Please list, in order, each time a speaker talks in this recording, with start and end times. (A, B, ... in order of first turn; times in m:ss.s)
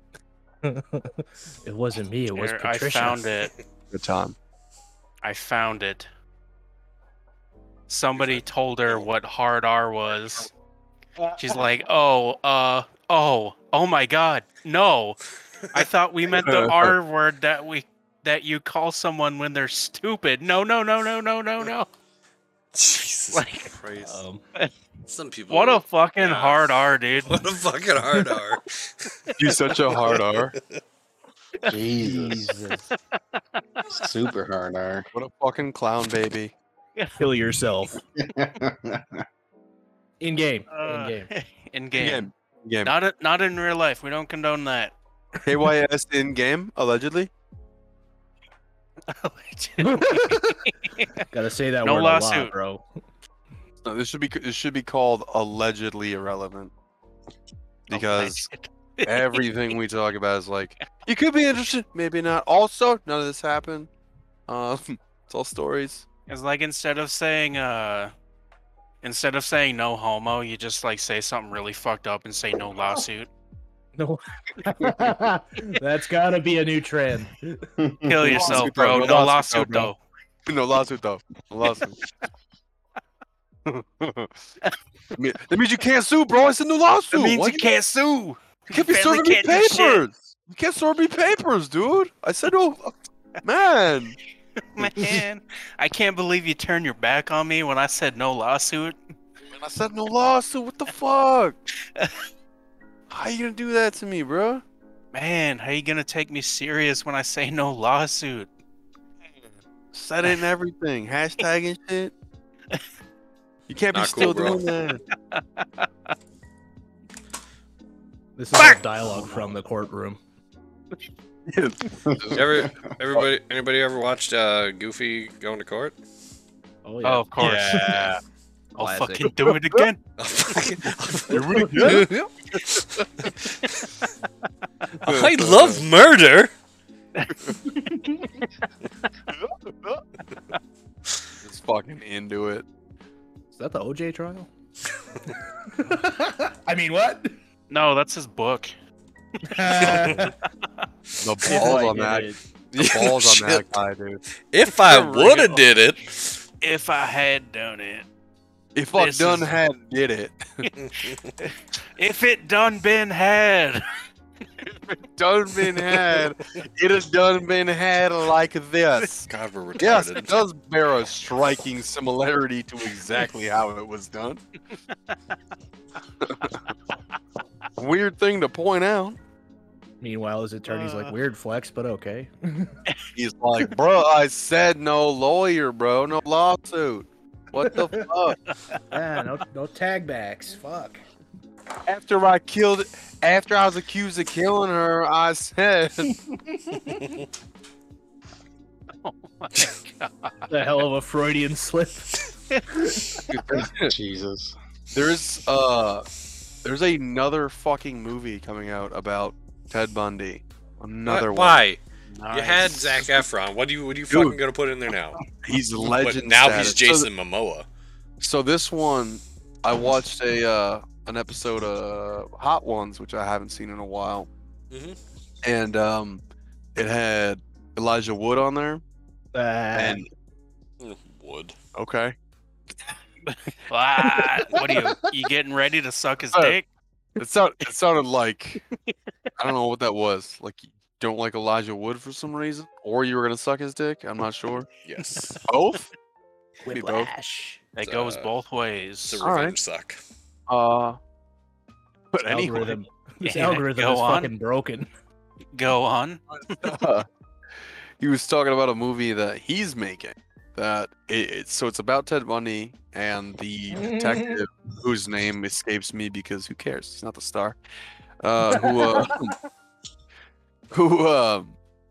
0:00.6-0:03.3 A
0:02.3-0:03.5 B
0:03.9-0:04.4 C
0:05.2-0:06.1 B
0:07.9-0:10.5 B
0:08.2-0:09.1 D
0:11.4-0:15.2 B
0:15.7-0:21.9 B
0:16.3-0:17.0 C
0:22.7-0:24.2 D
0:23.3-0:23.8 B
0:24.0-0:24.4 A
0:25.1-0:29.2 D
0:25.5-0:27.4 B
0:29.4-0:30.6 C
0:29.9-0:30.8 D
0:31.6-0:32.5 E
0:32.0-0:32.9 A
0:32.9-0:33.9 B
0:33.9-0:35.1 E
0:35.1-0:36.5 C
0:37.2-0:38.0 A
0:38.2-0:39.2 E
0:40.2-0:41.3 A
0:40.7-0:42.3 B
0:42.0-0:42.9 C
0:42.8-0:44.9 B
0:45.4-0:47.3 C
0:49.1-0:51.2 B
0:49.8-0:50.7 A
0:51.3-0:52.8 A
0:51.8-0:52.5 B
0:53.8-0:56.7 C
0:57.9-0:58.5 C
0:57.9-0:59.5 B
0:59.0-1:03.9 C
1:04.5-1:06.0 C
1:06.3-1:08.1 B
1:09.0-1:13.3 B
1:14.0-1:17.7 A
1:17.8-1:18.4 E
1:18.0-1:20.0 B
1:18.2-1:19.9 C
1:20.5-1:22.0 C
1:23.6-1:24.3 C
1:25.1-1:27.7 C
1:27.0-1:30.1 B
1:28.7-1:34.2 C
1:34.6-1:39.0 B
1:39.5-1:41.6 C
1:41.8-1:42.3 B
1:43.1-1:44.6 C
1:45.1-1:48.5 B
1:49.4-1:52.1 C
1:53.7-1:55.0 C
1:53.9-1:54.6 D
1:55.3-1:56.1 B
1:58.4-2:00.2 A
2:01.5-2:03.3 C
2:02.1-2:02.7 E
2:02.3-2:05.9 D
2:06.8-2:07.9 A
2:07.0-2:08.1 B
2:07.4-2:08.2 C
2:08.8-2:10.0 B
2:08.8-2:09.3 A
2:09.2-2:09.9 C
2:10.2-2:13.8 D
2:11.3-2:13.0 C
2:15.0-2:15.9 C
2:15.0-2:16.5 D
2:17.2-2:18.0 B
2:19.3-2:20.0 C
2:21.4-2:22.6 C
2:23.5-2:24.5 A
2:25.7-2:27.4 A
2:27.7-2:28.7 B
2:29.5-2:30.4 A
2:29.5-2:30.2 B
2:31.2-2:34.2 C
2:31.5-2:32.4 A
2:32.8-2:33.6 D
2:34.5-2:36.4 D
2:34.8-2:35.6 C
2:36.6-2:38.1 B
2:38.8-2:40.7 C
2:39.0-2:39.6 B
2:40.8-2:41.3 D
2:41.4-2:43.9 B
2:44.6-2:49.3 C
2:45.7-2:46.2 B
2:49.3-2:50.4 D
2:49.8-2:54.4 C
2:54.7-2:55.4 B
2:56.2-2:56.7 C
2:57.8-2:59.2 C
3:00.0-3:02.8 A
3:00.7-3:01.2 B
3:03.1-3:08.4 C
3:07.6-3:08.1 A
3:08.5-3:08.8 B
3:08.9-3:11.0 A
3:11.9-3:16.2 C
3:16.7-3:17.0 A
3:19.0-3:20.5 B
3:20.5-3:22.2 A
3:22.7-3:23.2 A
3:23.3-3:23.9 C
3:23.5-3:24.6 E
3:24.9-3:26.1 C
3:26.6-3:31.6 C
3:31.1-3:35.2 D
3:32.1-3:33.1 B
3:34.1-3:34.4 C
3:35.3-3:37.1 C
3:35.9-3:37.6 D
3:38.2-3:44.3 C
3:44.7-3:45.0 D
3:45.4-3:46.2 C
3:46.8-3:48.8 C
3:49.3-3:50.1 A
3:49.8-3:50.1 C
3:50.8-3:51.6 D
3:51.8-3:52.2 C
3:53.3-3:56.7 B
3:54.1-3:54.9 A
3:57.2-3:58.6 C
3:59.4-4:04.7 C
4:04.8-4:05.4 D
4:05.5-4:05.9 C
4:06.6-4:07.6 A
4:06.7-4:07.1 C
4:07.8-4:09.3 B
4:07.8-4:08.3 D
4:09.0-4:10.0 D
4:09.2-4:09.6 C
4:10.5-4:11.0 C
4:12.1-4:12.8 C
4:12.2-4:14.9 A
4:13.2-4:14.3 B
4:15.5-4:16.7 B
4:16.3-4:17.1 C
4:18.0-4:27.6 C
4:23.7-4:24.4 A
4:28.2-4:29.4 C
4:28.5-4:29.2 A
4:30.7-4:31.6 C